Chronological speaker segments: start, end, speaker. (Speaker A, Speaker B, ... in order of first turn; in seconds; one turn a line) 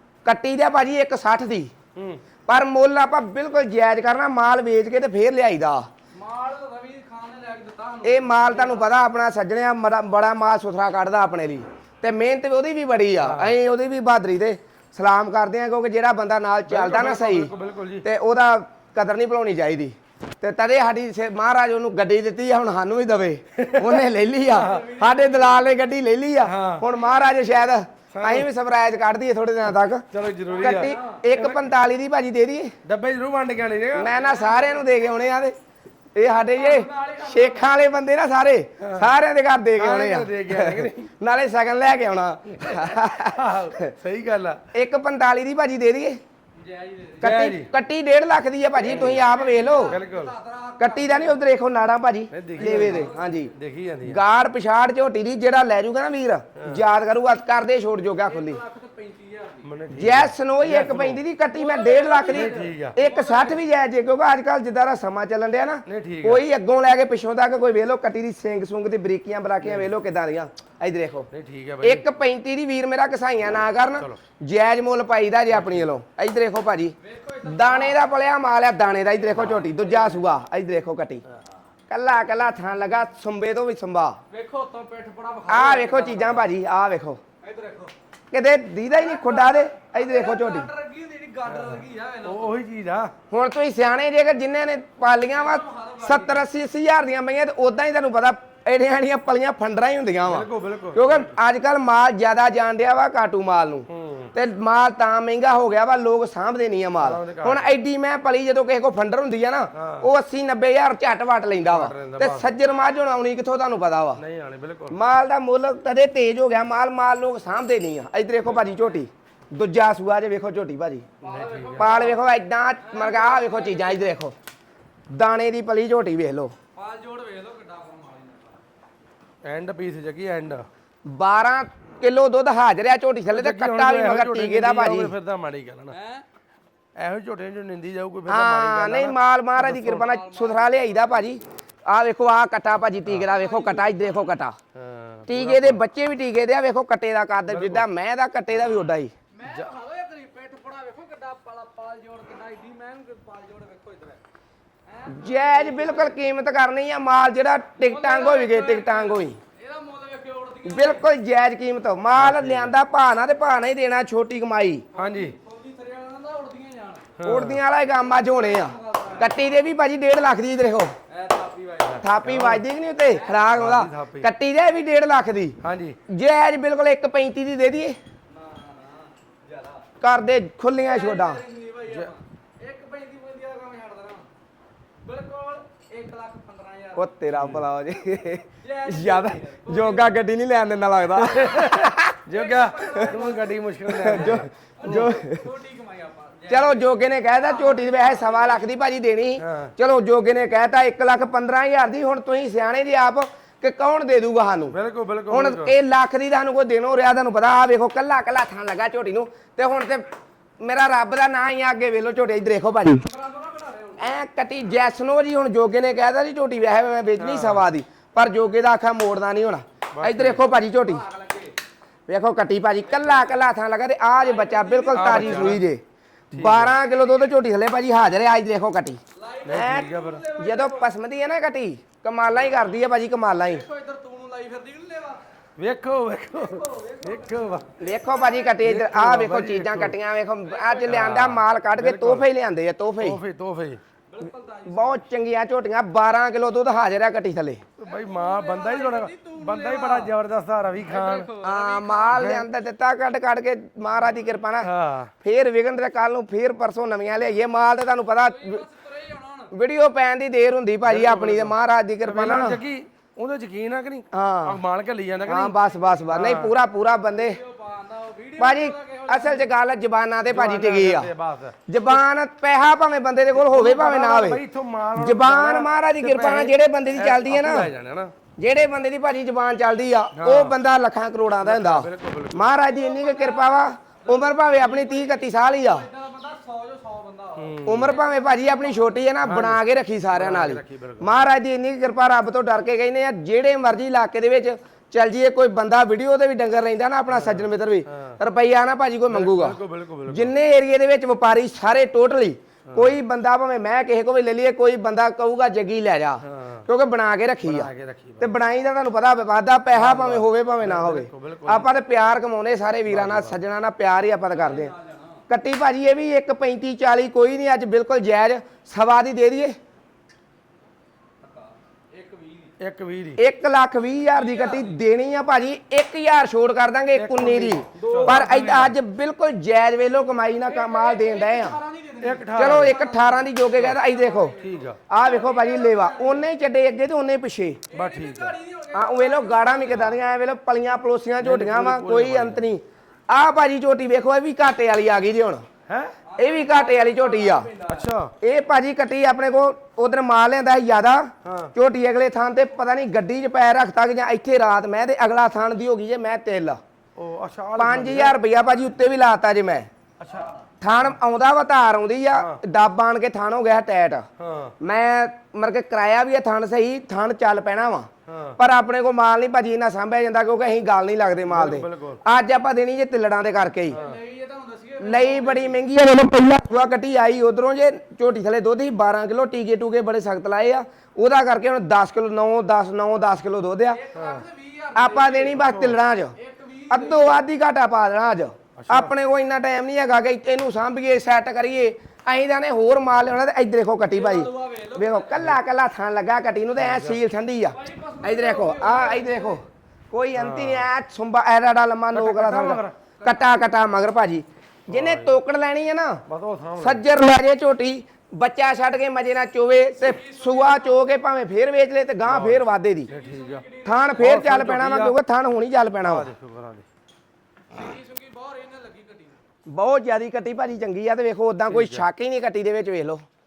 Speaker A: 0.2-1.7
Speaker B: 1.9-2.2
Speaker A: 2.5-5.9
Speaker C: 6.1-8.9
Speaker A: 8.0-30.0
Speaker B: 13.2-13.6
Speaker B: 16.7-18.1
Speaker B: 23.6-24.0
Speaker B: 24.5-24.8
Speaker C: 24.6-25.6
Speaker B: 26.4-26.8
Speaker B: 28.1-28.5
Speaker B: 30.1-31.7
Speaker C: 30.5-31.2
Speaker A: 30.6-32.7
Speaker B: 32.8-34.1
Speaker A: 33.9-35.5
Speaker C: 34.1-34.8
Speaker A: 36.1-43.9
Speaker C: 36.5-37.7
Speaker B: 38.8-39.1
Speaker B: 39.8-41.1
Speaker B: 42.5-44.6
Speaker A: 44.7-46.2
Speaker C: 46.6-47.3
Speaker B: 47.2-47.7
Speaker A: 47.2-50.0
Speaker B: 48.8-49.2
Speaker C: 48.8-51.4
Speaker B: 49.8-50.3
Speaker A: 50.8-58.6
Speaker B: 52.3-54.2
Speaker C: 52.5-53.4
Speaker C: 58.2-59.7
Speaker B: 59.6-61.2
Speaker A: 59.9-71.3
Speaker C: 61.5-63.6
Speaker B: 62.3-63.0
Speaker B: 65.8-66.4
Speaker B: 69.6-69.9
Speaker B: 71.3-72.0
Speaker A: 71.8-81.2
Speaker B: 75.5-75.8
Speaker C: 77.0-78.1
Speaker C: 79.2-80.2
Speaker A: 81.9-84.2
Speaker C: 84.3-86.5
Speaker A: 85.5-87.2
Speaker C: 87.4-87.9
Speaker A: 88.3-90.7
Speaker C: 88.9-92.5
Speaker B: 91.4-93.1
Speaker A: 93.3-114.2
Speaker C: 95.3-96.5
Speaker B: 100.2-101.3
Speaker B: 103.9-104.3
Speaker B: 107.0-107.7
Speaker B: 109.7-110.1
Speaker B: 111.6-112.5
Speaker B: 114.2-115.0
Speaker A: 114.9-121.1
Speaker B: 121.2-122.0
Speaker C: 121.2-122.2
Speaker A: 121.8-124.3
Speaker C: 122.8-124.2
Speaker A: 125.1-126.5
Speaker C: 126.7-128.6
Speaker B: 129.4-130.7
Speaker A: 131.0-135.1
Speaker B: 133.3-136.0
Speaker C: 135.9-136.2
Speaker B: 137.0-140.0
Speaker A: 138.3-144.6
Speaker C: 139.7-141.2
Speaker C: 143.2-144.0
Speaker B: 144.7-145.8
Speaker A: 145.3-149.1
Speaker B: 147.5-147.8
Speaker C: 149.3-154.2
Speaker B: 149.4-149.7
Speaker C: 154.9-156.2
Speaker A: 155.1-159.4
Speaker C: 157.8-161.0
Speaker A: 160.6-164.8
Speaker B: 162.1-162.7
Speaker B: 164.9-165.3
Speaker C: 164.9-167.1
Speaker B: 167.2-167.6
Speaker A: 167.2-170.9
Speaker C: 168.2-169.4
Speaker C: 171.1-172.0
Speaker B: 171.8-172.6
Speaker A: 172.0-175.6
Speaker C: 173.1-173.4
Speaker B: 173.5-174.3
Speaker B: 175.6-176.0
Speaker A: 176.1-178.0
Speaker C: 178.3-179.8
Speaker A: 180.0-181.4
Speaker C: 180.8-184.3
Speaker B: 181.8-182.1
Speaker C: 185.0-187.1
Speaker A: 186.9-192.2
Speaker B: 187.3-187.6
Speaker C: 188.6-190.1
Speaker B: 191.2-195.1
Speaker C: 192.3-193.6
Speaker A: 193.9-195.5
Speaker C: 194.3-198.6
Speaker A: 196.5-204.7
Speaker B: 199.4-199.7
Speaker B: 204.7-205.7
Speaker A: 205.3-210.1
Speaker A: 210.6-213.1
Speaker C: 213.0-214.1
Speaker A: 214.0-221.0
Speaker B: 217.2-217.6
Speaker B: 219.9-220.4
Speaker C: 220.5-221.6
Speaker A: 222.1-229.0
Speaker C: 222.9-223.3
Speaker C: 224.2-225.5
Speaker B: 224.9-225.6
Speaker B: 226.3-226.8
Speaker C: 229.2-230.8
Speaker B: 229.4-230.2
Speaker A: 229.5-233.6
Speaker C: 233.5-235.2
Speaker B: 235.6-237.7
Speaker C: 236.3-238.5
Speaker A: 237.8-243.2
Speaker B: 238.6-239.9
Speaker C: 240.4-241.0
Speaker B: 240.9-242.3
Speaker B: 243.0-243.8
Speaker C: 244.1-245.0
Speaker A: 244.6-247.6
Speaker B: 247.8-251.3
Speaker C: 247.8-250.1
Speaker C: 250.8-252.3
Speaker A: 251.4-254.7
Speaker B: 252.1-252.4
Speaker B: 254.6-255.1
Speaker A: 255.2-258.6
Speaker C: 258.2-259.5
Speaker A: 259.5-262.6
Speaker B: 260.8-265.6
Speaker A: 264.1-264.6
Speaker A: 265.2-267.4
Speaker B: 266.1-266.5
Speaker C: 267.1-269.5
Speaker A: 268.4-271.1
Speaker B: 270.3-271.6
Speaker A: 271.7-274.4
Speaker B: 273.3-278.1
Speaker A: 275.0-277.7
Speaker A: 278.4-285.9
Speaker B: 280.1-280.6
Speaker B: 281.4-282.5
Speaker C: 282.6-289.0
Speaker B: 287.4-288.0
Speaker A: 287.6-314.7
Speaker B: 289.2-291.1
Speaker B: 297.1-298.2
Speaker B: 299.1-300.3
Speaker B: 302.7-303.0
Speaker B: 306.2-306.6
Speaker B: 307.4-308.3
Speaker B: 309.7-311.7
Speaker B: 312.9-313.4
Speaker C: 314.3-315.2
Speaker A: 315.3-319.6
Speaker C: 321.2-322.5
Speaker B: 322.6-323.2
Speaker A: 323.2-331.6
Speaker C: 324.1-324.8
Speaker B: 326.9-328.7
Speaker C: 327.8-328.6
Speaker C: 330.4-336.2
Speaker B: 332.0-332.7
Speaker A: 332.3-337.6
Speaker B: 334.4-334.8
Speaker C: 337.7-340.0
Speaker B: 337.7-338.4
Speaker A: 338.7-345.4
Speaker B: 341.2-342.4
Speaker B: 345.7-346.0
Speaker C: 346.1-347.9
Speaker A: 346.2-347.5
Speaker B: 347.7-348.1
Speaker A: 348.2-356.6
Speaker B: 351.2-351.5
Speaker B: 356.9-358.2
Speaker A: 357.6-359.7
Speaker B: 360.0-360.9
Speaker A: 360.6-364.1
Speaker B: 362.1-362.4
Speaker B: 364.2-364.5
Speaker A: 364.6-373.8
Speaker B: 368.1-368.4
Speaker B: 371.3-372.0
Speaker B: 373.7-374.0
Speaker C: 373.7-375.6
Speaker A: 374.8-383.8
Speaker C: 383.7-385.5
Speaker B: 383.9-384.2
Speaker A: 384.7-386.1
Speaker B: 385.4-385.8
Speaker C: 386.1-387.2
Speaker A: 386.7-406.0
Speaker B: 388.6-388.9
Speaker C: 393.9-395.3
Speaker B: 396.6-397.0
Speaker C: 397.5-399.4
Speaker B: 400.1-400.7
Speaker B: 401.9-402.7
Speaker B: 404.7-405.2
Speaker B: 406.1-406.8
Speaker A: 406.6-412.9
Speaker C: 409.8-410.8
Speaker B: 412.1-413.4
Speaker C: 412.9-414.2
Speaker A: 413.6-416.1
Speaker B: 414.0-414.9
Speaker B: 415.8-416.6
Speaker C: 417.5-419.1
Speaker A: 419.4-423.0
Speaker B: 421.5-421.9